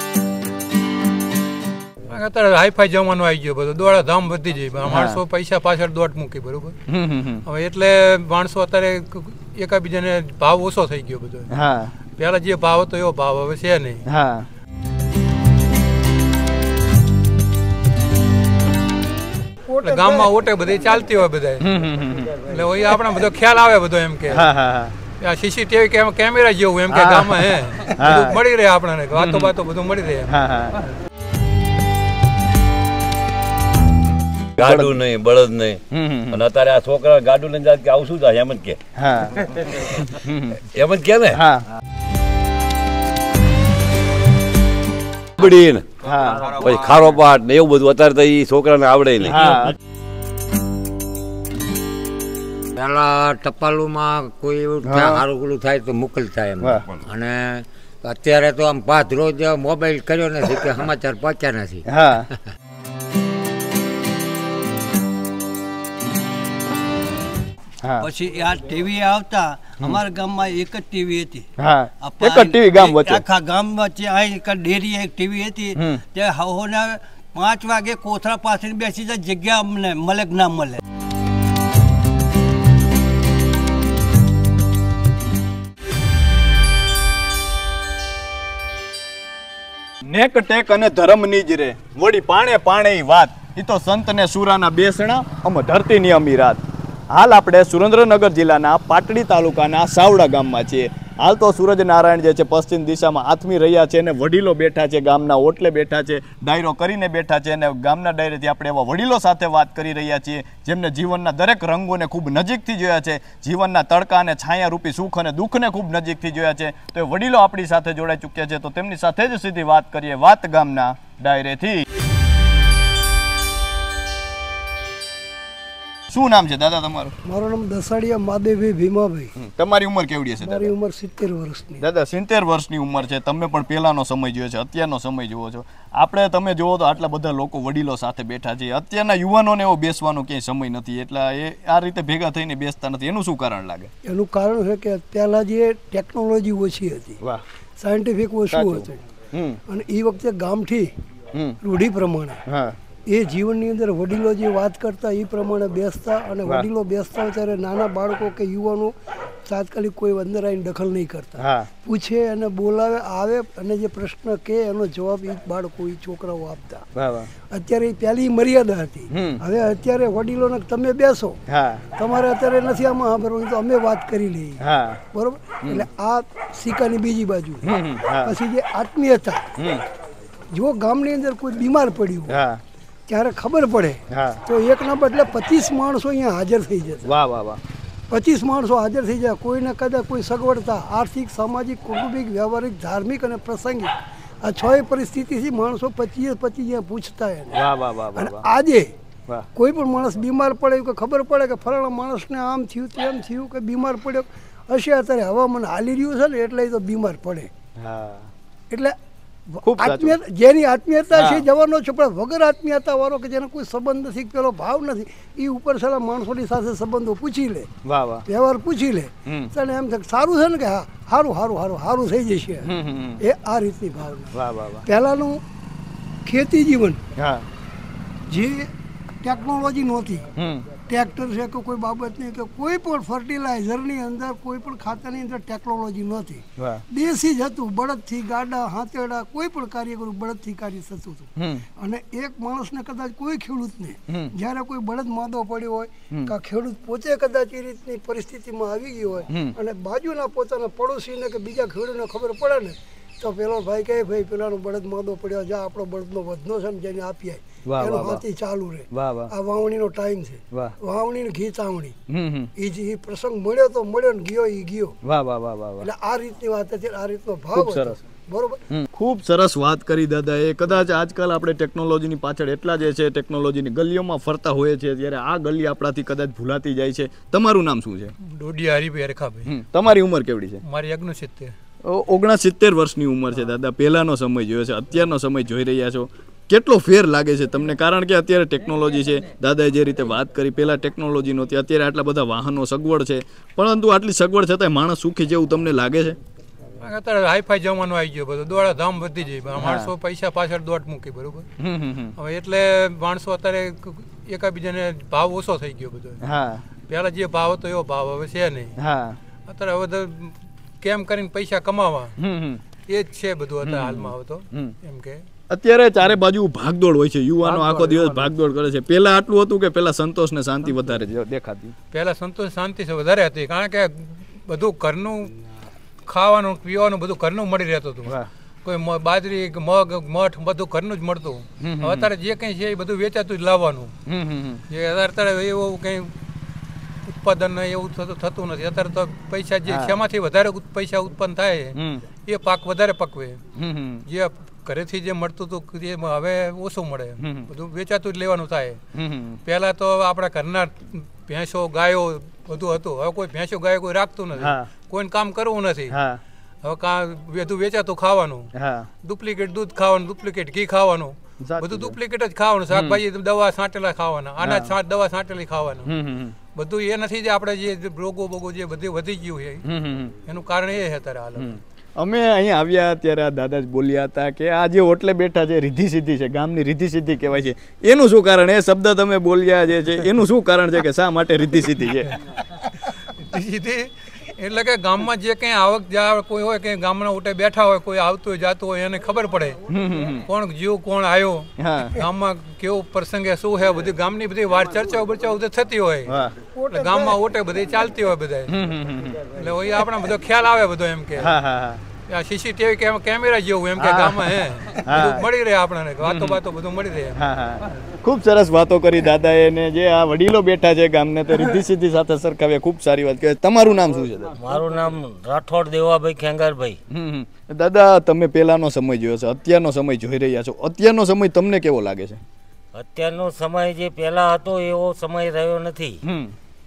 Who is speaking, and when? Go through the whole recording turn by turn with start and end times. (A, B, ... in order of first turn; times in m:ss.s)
0:02.1-0:06.7 A
0:04.9-0:05.2 B
0:06.9-0:07.4 B
0:07.5-0:11.5 A
0:11.5-0:11.9 B
0:12.2-0:14.0 A
0:14.1-0:14.5 B
0:19.7-0:20.3 C
0:19.8-0:21.6 A
0:21.6-0:22.4 B
0:22.4-0:24.4 A
0:24.3-0:24.9 B
0:25.2-0:30.2 A
0:26.9-0:28.4 B
0:29.1-0:29.5 B
0:30.3-0:30.8 B
0:34.6-0:35.0 B
0:34.6-0:38.8 D
0:35.9-0:36.4 B
0:39.0-0:39.4 B
0:40.1-0:40.6 B
0:40.8-0:41.4 D
0:41.3-0:41.6 B
0:45.4-0:49.4 D
0:46.0-0:46.6 B
0:49.2-0:49.8 B
0:52.8-1:01.8 E
0:54.8-0:55.2 B
0:56.8-0:57.1 D
1:01.9-1:02.3 B
1:08.0-1:11.4 F
1:11.6-1:13.2 B
1:12.0-1:20.8 F
1:15.7-1:16.0 B
1:30.0-1:36.6 B
1:37.1-2:01.8 B
2:06.1-2:07.1 B
2:07.2-2:09.3 C
2:09.4-2:10.7 B
2:10.4-2:11.8 C
2:11.8-2:23.9 B
2:24.0-2:27.2 C
2:27.8-2:29.0 C
2:28.5-2:29.6 B
2:29.7-2:30.9 C
2:31.6-2:32.4 C
2:32.5-2:32.8 B
2:33.1-2:38.9 C
2:39.4-2:46.8 C
2:41.4-2:41.7 B
2:46.9-2:47.3 B
2:47.5-2:51.4 C
2:49.1-2:49.4 B
2:51.5-2:51.8 B
2:51.9-2:54.6 C
2:54.6-2:55.0 B
2:55.1-2:57.7 C
2:57.6-2:58.4 B
2:58.2-2:59.4 C
2:59.6-2:59.8 B
3:00.5-3:02.4 C
3:02.3-3:02.6 B
3:03.1-3:07.0 C
3:04.1-3:04.4 B
3:07.1-3:07.6 B
3:08.1-3:17.6 C
3:17.5-3:18.5 B
3:18.1-3:18.9 C
3:19.6-3:27.5 C
3:27.8-3:28.3 B
3:28.7-3:29.0 C
3:29.5-3:37.7 C
3:29.6-3:30.2 B
3:31.1-3:31.4 B
3:37.8-3:38.2 B
3:38.3-3:45.4 C
3:42.7-3:43.2 B
3:44.3-3:44.8 B
3:46.2-3:47.0 C
3:47.2-3:47.4 B
3:48.3-3:48.7 C
3:49.2-3:50.2 C
3:50.4-3:50.6 B
3:50.8-4:22.0 C
3:56.6-3:56.8 B
4:01.4-4:01.6 B
4:17.7-4:18.2 B
4:18.9-4:19.3 B
4:22.1-4:22.5 B
4:22.6-4:24.9 C
4:25.0-4:25.9 B
4:25.8-4:28.6 C
4:27.5-4:28.0 B
4:28.7-4:38.1 B
4:38.3-4:39.4 A
4:39.4-4:40.6 B
4:40.7-4:41.5 A
4:41.8-4:56.2 B
4:56.8-5:01.4 A
4:59.6-4:59.9 B
5:01.6-5:02.1 B
5:02.2-5:06.2 A
5:06.2-5:06.6 B
5:06.9-5:08.7 A
5:08.8-5:09.2 B
5:09.5-5:12.1 A
5:12.2-5:12.6 B
5:12.9-5:15.2 A
5:13.6-5:14.7 B
5:15.5-5:21.7 B
5:21.9-5:25.3 A
5:26.1-5:28.0 A
5:28.6-5:33.9 A
5:31.6-5:32.1 B
5:34.0-5:34.6 B
5:34.7-5:36.1 A
5:37.1-5:41.7 A
5:39.7-5:40.0 B
5:41.7-5:42.0 B
5:42.3-5:43.4 A
5:43.6-5:44.0 B
5:44.1-5:48.8 A
5:47.2-5:47.5 B
5:48.9-5:49.4 B
5:49.4-5:55.9 A
5:54.4-5:54.7 B
5:55.9-5:56.2 B
5:56.6-5:58.5 A
5:58.5-5:58.9 B
5:59.0-6:05.9 A
6:01.4-6:02.0 B
6:02.7-6:03.0 B
6:04.4-6:04.8 B
6:05.8-6:06.4 B
6:06.6-6:09.6 A
6:09.6-6:10.1 B
6:10.3-6:11.5 A
6:11.4-6:22.1 B
6:23.2-6:29.6 A
6:29.7-6:30.3 B
6:30.3-6:36.1 A
6:31.6-6:32.0 B
6:36.1-6:36.3 B
6:36.5-6:37.2 C
6:36.7-6:38.5 A
6:38.5-6:39.3 B
6:39.3-6:41.2 A
6:41.2-6:41.8 B
6:42.1-6:47.1 A
6:43.8-6:44.3 B
6:44.8-6:45.3 B
6:46.0-6:46.4 B
6:47.1-6:54.3 B
6:54.4-6:56.8 G
6:56.9-7:02.2 B
7:02.7-7:06.0 G
7:06.0-7:06.3 B